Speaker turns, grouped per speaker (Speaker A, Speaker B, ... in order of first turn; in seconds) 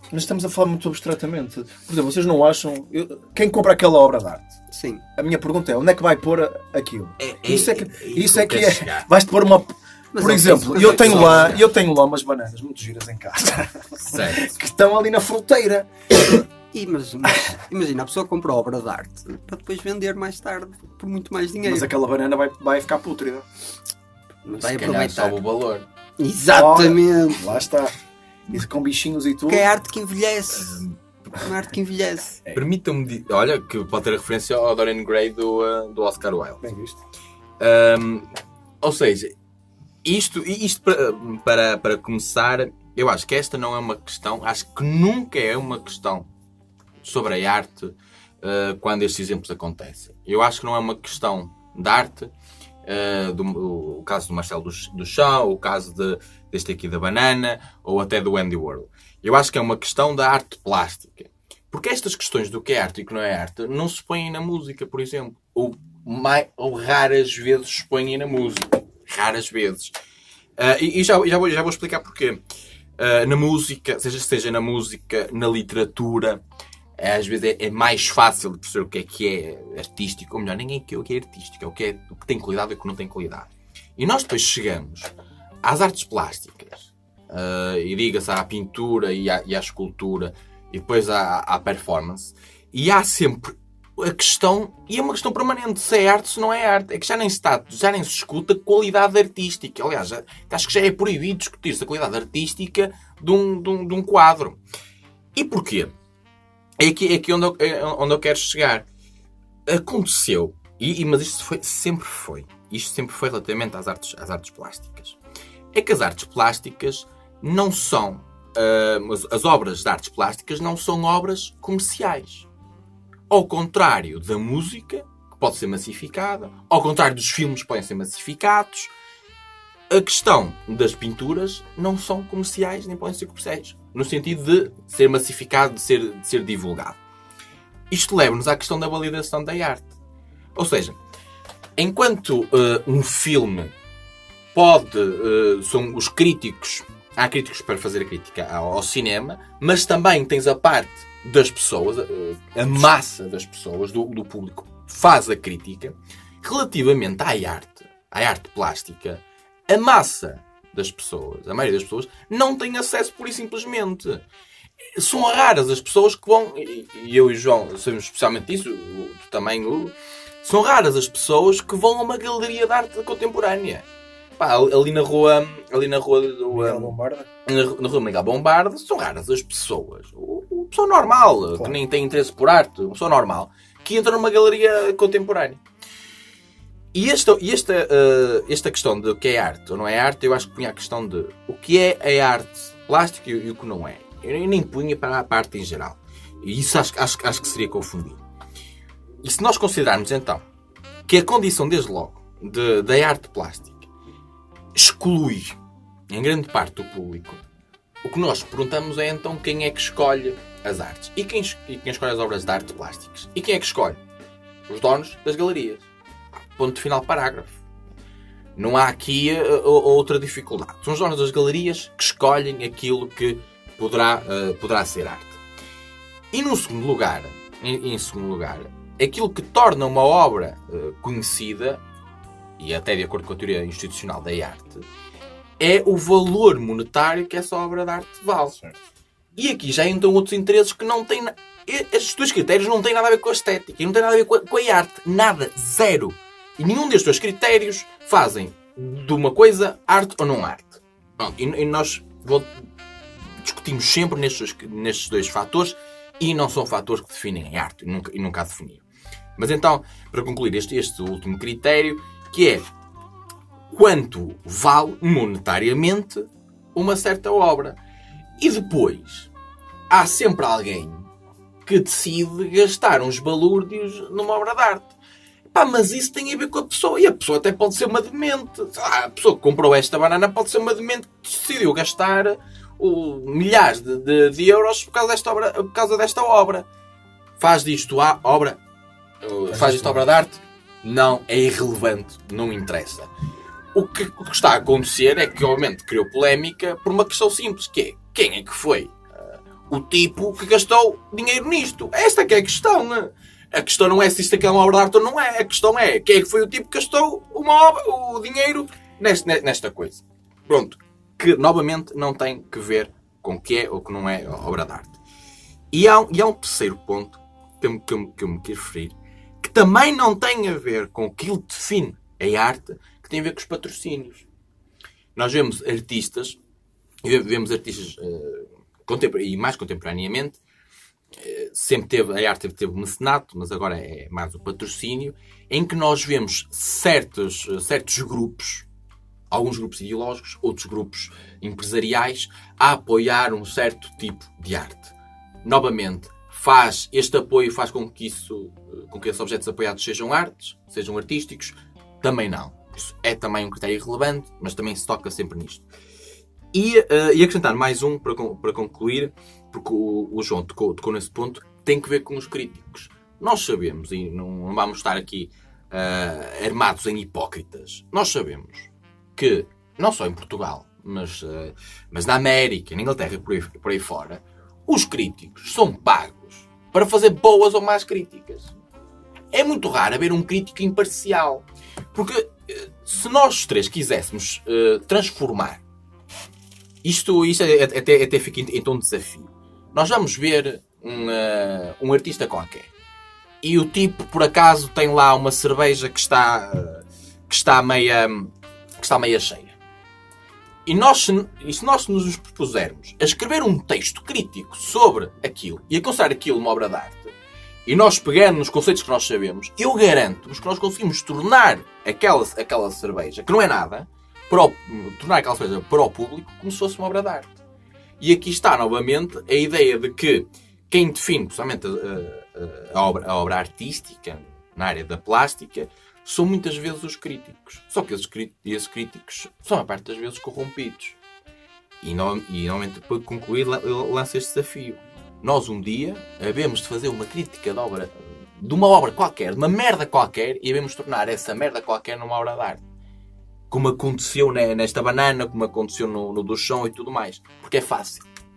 Speaker A: 0.1-4.5, 5.2-15.9, 21.6-23.4, 26.5-27.9, 28.5-29.6, 36.6-37.0, 176.5-177.3, 289.5-290.0
Speaker B: 4.7-5.0, 10.1-11.6, 16.7-21.9, 24.4-25.4, 26.2-27.4, 29.5-32.4
Speaker C: 7.2-9.1, 10.7-11.6, 14.1-14.5, 24.6-25.9, 32.5-36.6, 37.6-38.3, 38.8-39.3, 40.0-46.3, 47.0-52.3, 52.8-69.9, 70.6-72.4, 73.0-76.4, 77.0-85.1, 85.6-104.6, 105.3-105.9, 106.8-108.8, 109.7-115.2, 115.7-122.5, 123.3-128.9, 129.9-137.0, 137.9-139.9, 140.6-141.0, 141.8-143.7, 144.5-164.2, 164.9-173.8, 174.4-185.6, 186.9-198.2, 199.2-200.4, 201.1-203.9, 204.7-205.6, 206.1-207.4, 208.0-214.0, 214.7-215.9, 216.6-217.6, 218.6-225.4, 226.3-231.8, 232.6-234.8, 235.6-238.6, 239.3-252.5, 253.4-258.8, 259.4-262.6, 263.7-267.8, 268.4-269.3, 269.9-271.1, 271.6-274.9, 275.5-286.6, 287.4-288.6, 289.2-293.1, 293.7-314.9, 315.7-324.2, 325.1-326.4, 327.0-330.4, 331.1-338.6, 339.3-355.6, 356.5-378.5, 379.3-385.6, 386.8-392.7, 393.4-399.6, 400.6-407.1, 407.6-417.4, 418.0-430.9, 431.8-442.6, 443.5-448.0